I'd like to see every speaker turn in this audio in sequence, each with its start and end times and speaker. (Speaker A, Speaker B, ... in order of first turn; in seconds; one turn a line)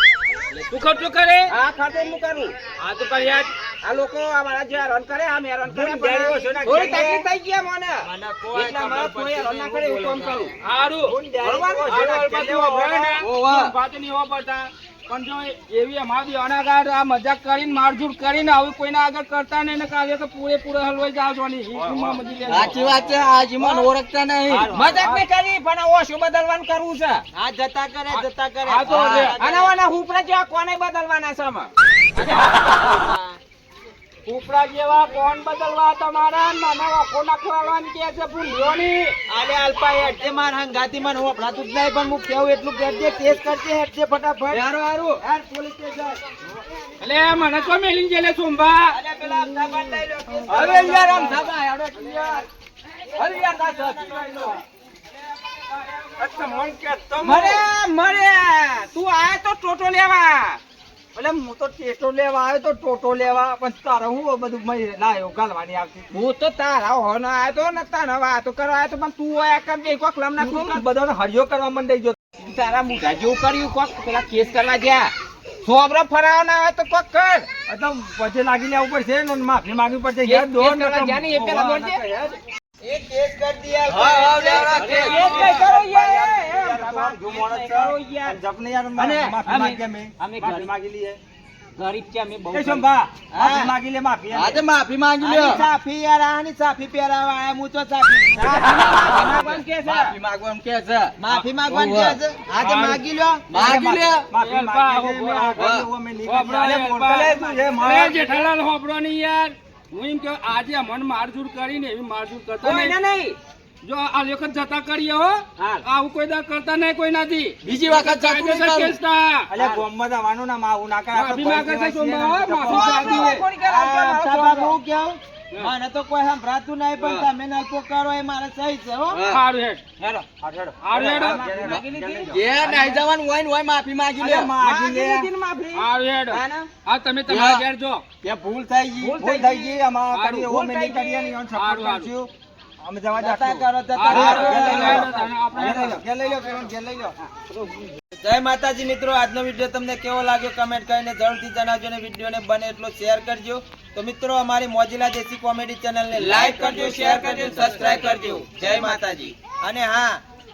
Speaker A: 0.5-1.5
Speaker B: 1.5-10.5
Speaker C: 5.7-7.3
Speaker D: 8.0-10.5
Speaker A: 10.6-11.2
Speaker C: 11.0-13.2
Speaker B: 11.4-11.9
Speaker A: 11.8-23.2
Speaker E: 13.2-13.7
Speaker C: 21.8-23.9
Speaker E: 22.5-24.7
Speaker B: 24.5-27.2
Speaker C: 24.6-25.0
Speaker D: 24.7-25.0
Speaker A: 24.9-25.2
Speaker D: 27.3-29.7
Speaker A: 28.1-29.4
Speaker B: 29.4-31.7
Speaker D: 32.2-33.3
Speaker A: 32.2-32.6
Speaker A: 34.2-39.1
Speaker D: 39.3-44.6
Speaker E: 44.5-45.2
Speaker D: 45.2-46.4
Speaker A: 47.0-49.0
Speaker D: 48.9-51.5
Speaker E: 50.4-52.5
Speaker C: 50.5-51.4
Speaker A: 50.6-51.0
Speaker E: 53.1-54.5
Speaker D: 53.1-54.6
Speaker C: 53.5-54.5
Speaker A: 55.8-57.6
Speaker C: 56.2-57.6
Speaker B: 57.2-60.6
Speaker C: 61.1-66.2
Speaker B: 66.1-70.8
Speaker C: 70.4-72.2
Speaker B: 72.4-77.5
Speaker C: 77.7-82.3
Speaker B: 80.2-82.3
Speaker D: 82.8-86.5
Speaker E: 83.9-85.4
Speaker C: 84.2-91.2
Speaker B: 84.3-88.4
Speaker A: 84.9-85.6
Speaker B: 88.9-90.7
Speaker B: 91.8-92.8
Speaker C: 92.5-94.6
Speaker D: 93.3-93.7
Speaker E: 94.3-95.6
Speaker D: 95.2-98.9
Speaker B: 98.3-100.2
Speaker E: 98.5-102.2
Speaker D: 101.2-103.4
Speaker A: 102.6-103.0
Speaker C: 102.6-102.9
Speaker E: 103.5-104.2
Speaker C: 103.5-108.2
Speaker A: 104.3-105.7
Speaker E: 105.5-105.9
Speaker A: 106.2-113.0
Speaker B: 107.3-108.1
Speaker B: 112.6-113.4
Speaker A: 113.8-119.5
Speaker B: 115.6-115.8
Speaker E: 117.6-119.0
Speaker C: 119.5-123.5
Speaker B: 119.6-119.8
Speaker A: 121.1-123.4
Speaker B: 122.7-124.7
Speaker D: 122.8-129.2
Speaker E: 127.0-127.2
Speaker E: 129.1-129.4
Speaker A: 129.2-129.8
Speaker B: 130.0-130.3
Speaker C: 130.4-132.7
Speaker A: 130.8-131.5
Speaker B: 131.1-133.0
Speaker E: 131.6-134.5
Speaker C: 134.2-135.3
Speaker B: 134.6-136.7
Speaker A: 135.7-138.0
Speaker E: 137.3-137.6
Speaker C: 138.2-147.2
Speaker E: 138.3-139.1
Speaker B: 139.0-141.3
Speaker A: 141.5-142.1
Speaker D: 143.1-145.1
Speaker A: 143.9-146.0
Speaker B: 147.3-147.9
Speaker D: 148.2-160.2
Speaker C: 156.1-158.3
Speaker B: 156.2-159.3
Speaker E: 156.6-157.7